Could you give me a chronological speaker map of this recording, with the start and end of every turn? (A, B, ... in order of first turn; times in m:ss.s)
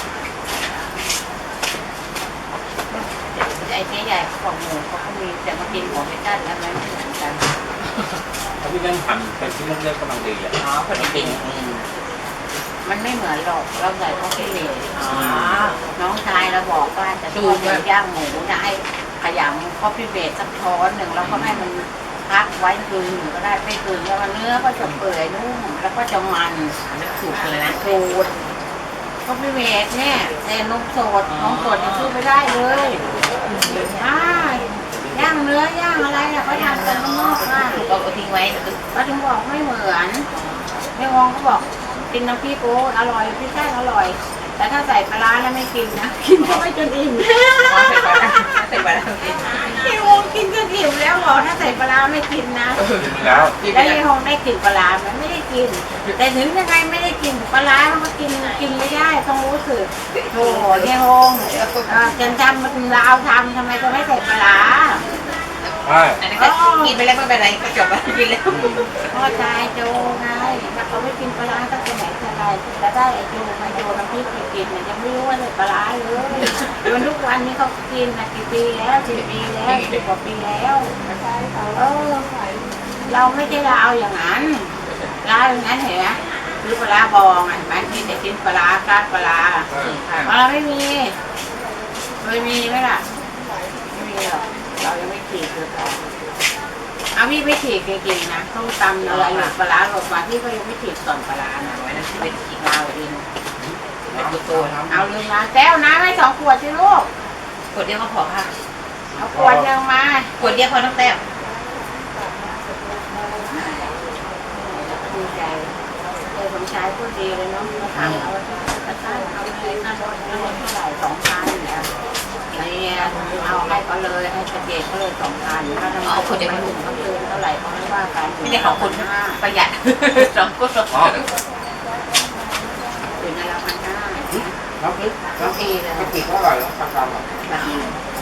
0:02.9-0:07.4 A
0:08.6-0:11.3 B
0:10.5-0:11.6 C
0:12.8-0:15.1 A
0:15.0-0:15.7 C
0:15.9-0:26.7 A
0:17.3-0:17.8 C
0:21.2-0:21.5 C
0:26.9-0:28.0 C
0:27.6-0:28.3 A
0:29.2-0:33.1 A
0:31.3-0:32.1 C
0:33.4-0:34.0 C
0:33.8-0:37.8 A
0:36.5-0:38.8 C
0:38.9-0:40.2 A
0:40.4-0:40.7 C
0:41.0-0:48.2 A
0:47.6-0:49.6 C
0:49.5-0:52.8 A
0:52.8-0:54.0 C
0:53.0-0:53.5 B
0:53.6-1:05.0 A
1:00.1-1:00.9 C
1:01.4-1:02.1 C
1:05.9-1:06.2 B
1:06.2-1:08.9 C
1:06.4-1:06.9 A
1:09.1-1:20.9 A
1:19.6-1:20.0 C
1:21.7-1:22.3 A
1:23.1-1:24.7 A
1:25.2-1:29.7 A
1:29.8-1:30.3 C
1:30.2-1:31.1 A
1:32.2-1:33.0 A
1:33.9-1:36.0 A
1:37.1-1:43.2 A
1:39.0-1:39.5 C
1:41.7-1:42.6 C
1:44.1-1:45.0 C
1:44.3-1:44.7 B
1:44.9-1:47.1 A
1:47.7-1:48.5 C
1:49.1-1:50.3 A
1:49.3-1:49.6 B
1:50.4-1:51.2 C
1:53.2-1:53.9 A
1:54.6-1:55.7 A
1:56.3-2:01.9 A
2:02.5-2:09.4 A
2:06.0-2:06.8 C
2:08.4-2:11.3 C
2:10.9-2:11.2 B
2:13.2-2:14.5 A
2:14.8-2:17.2 B
2:15.4-2:16.1 A
2:17.4-2:17.9 A